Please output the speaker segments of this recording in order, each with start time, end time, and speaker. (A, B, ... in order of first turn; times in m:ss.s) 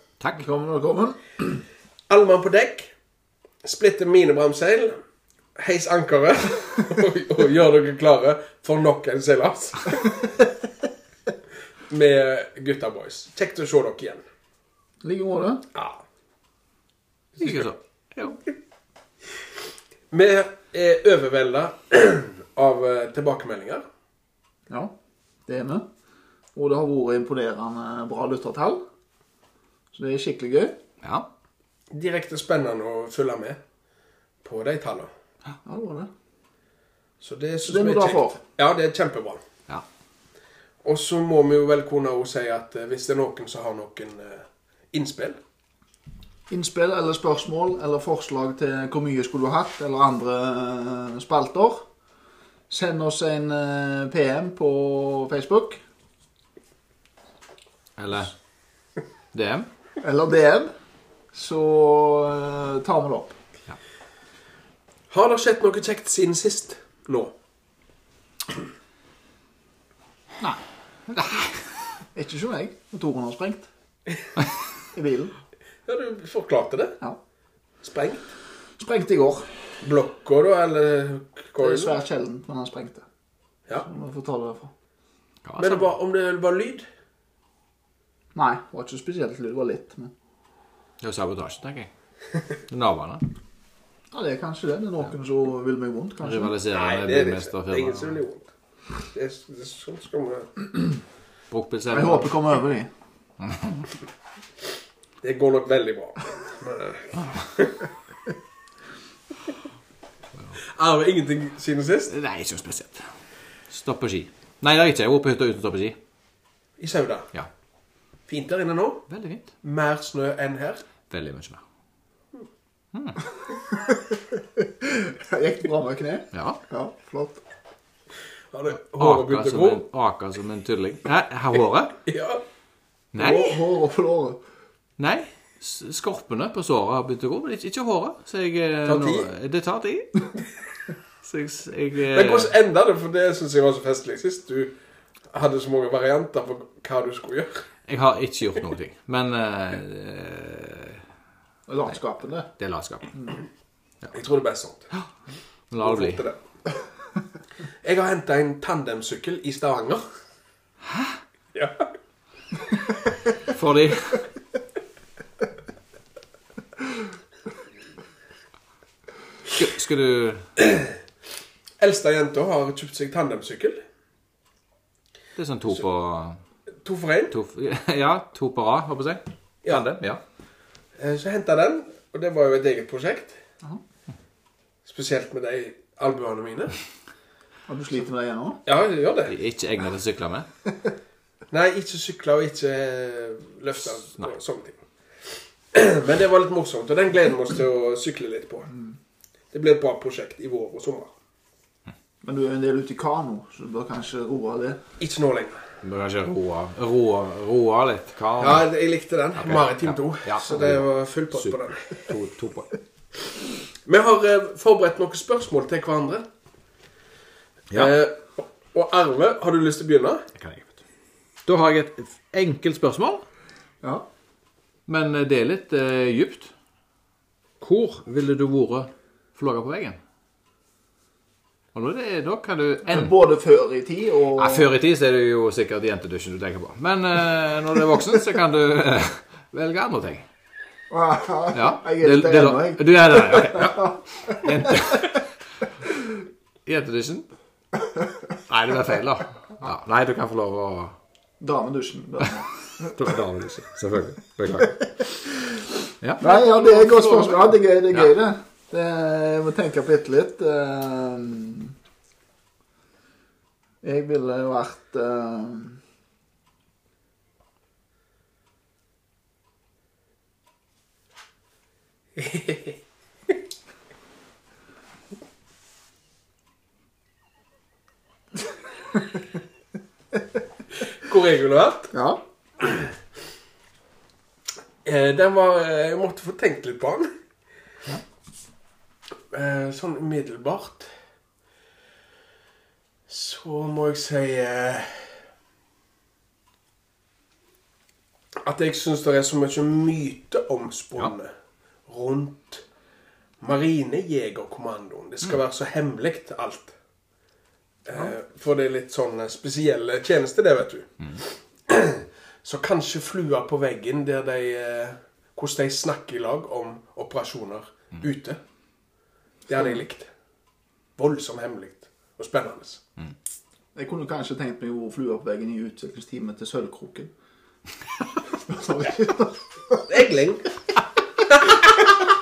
0:00.2-0:00.4 A
0:00.3-0:01.6 B
0:02.1-0:02.9 C
0:03.6-0:05.0 C
0:05.6-0:10.3 C
0:11.9-0:14.2 C
0:15.0-0:15.6 B
0:15.7-0:16.0 C
0:17.4-0:17.7 C
0:17.4-0:18.4 A
0:20.1-0:23.8 C
0:24.7-0:24.9 B
0:25.5-0:25.9 B
0:26.6-0:28.8 B
0:29.9-0:30.8 B
0:31.0-0:31.3 A
0:31.9-0:33.6 C
0:34.4-0:35.1 C
0:35.6-0:36.1 B
0:37.2-0:39.4 C
0:37.6-0:38.4 B
0:40.8-0:45.4 C
0:46.5-0:51.9 B
0:52.7-0:55.8 B
0:58.0-0:58.3 A
0:59.3-0:59.7 A
1:00.0-1:00.7 B
1:01.3-1:03.4 B
1:05.1-1:07.3 C
1:11.1-1:11.6 A
1:12.1-1:13.7 B
1:14.9-1:15.3 B
1:15.9-1:17.0 C
1:17.8-1:18.4 C
1:18.8-1:19.5 B
1:19.8-1:22.0 C
1:21.6-1:23.0 B
1:23.8-1:24.7 B
1:25.4-1:25.9 A
1:25.6-1:26.8 C
1:28.4-1:30.1 B
1:31.0-1:31.9 A
1:32.7-1:33.2 A
1:34.1-1:36.6 B
1:36.2-1:38.2 A
1:36.7-1:38.5 C
1:39.1-1:40.7 C
1:41.5-1:42.3 A
1:41.9-1:42.9 B
1:43.4-1:43.8 A
1:45.2-1:47.9 C
1:50.7-1:52.1 C
1:52.1-1:53.1 A
1:53.7-1:56.0 A
1:56.8-1:57.3 C
1:58.3-1:59.1 C
1:59.1-1:59.5 A
1:59.6-2:00.8 C
2:01.1-2:01.6 A
2:02.9-2:03.2 A
2:03.7-2:07.4 B
2:06.3-2:06.6 A
2:08.5-2:09.8 C
2:09.0-2:12.0 A
2:12.1-2:12.4 C
2:13.1-2:13.6 A
2:13.2-2:14.4 B
2:15.0-2:20.2 A
2:18.8-2:19.3 C
2:21.2-2:22.5 A
2:22.1-2:24.8 C
2:25.3-2:27.6 C
2:27.9-2:31.0 A
2:31.7-2:32.5 B
2:32.6-2:33.1 A
2:34.1-2:34.9 C
2:35.7-2:36.2 A
2:35.8-2:36.4 C
2:37.8-2:40.0 C
2:41.5-2:41.9 C
2:43.5-2:44.2 A
2:49.5-2:50.5 A
2:51.8-2:53.8 C
2:55.4-2:56.4 A
2:56.8-2:57.4 C
2:57.3-3:00.2 A
3:01.0-3:03.4 C
3:04.9-3:06.8 C
3:07.7-3:08.6 B
3:08.7-3:09.4 C
3:09.3-3:10.5 A
3:11.5-3:14.8 C
3:15.7-3:18.7 C
3:19.5-3:21.1 C
3:22.2-3:24.8 B
3:25.0-3:25.6 C
3:25.8-3:28.7 A
3:28.4-3:32.1 C
3:29.4-3:32.8 A
3:33.9-3:36.3 C
3:37.7-3:40.3 C
3:40.4-3:40.8 A
3:41.5-3:43.2 A
3:44.9-3:46.5 A
3:47.6-3:50.0 A
3:51.7-3:53.1 A
3:52.9-3:54.7 B
3:54.4-4:00.3 A
4:00.9-4:05.1 B
4:01.5-4:05.2 A
4:06.6-4:07.3 A
4:08.5-4:11.0 A
4:11.4-4:12.9 B
4:12.9-4:14.8 A
4:15.0-4:15.5 B
4:16.0-4:17.2 A
4:16.2-4:21.7 B
4:23.8-4:25.8 B
4:32.2-4:32.8 C
4:40.9-4:42.0 C
4:41.9-4:42.2 B
4:42.6-4:42.9 C
4:44.8-4:47.1 C
4:49.3-4:50.9 C
4:53.1-4:55.1 C
4:58.4-5:01.3 C
5:01.9-5:02.6 C
5:03.4-5:06.7 C
5:07.9-5:18.4 C
5:19.5-5:20.1 C
5:19.5-5:19.8 B
5:21.0-5:22.8 C
5:23.8-5:27.1 B
5:28.5-5:29.8 B
5:29.8-5:30.5 C
5:31.3-5:31.9 C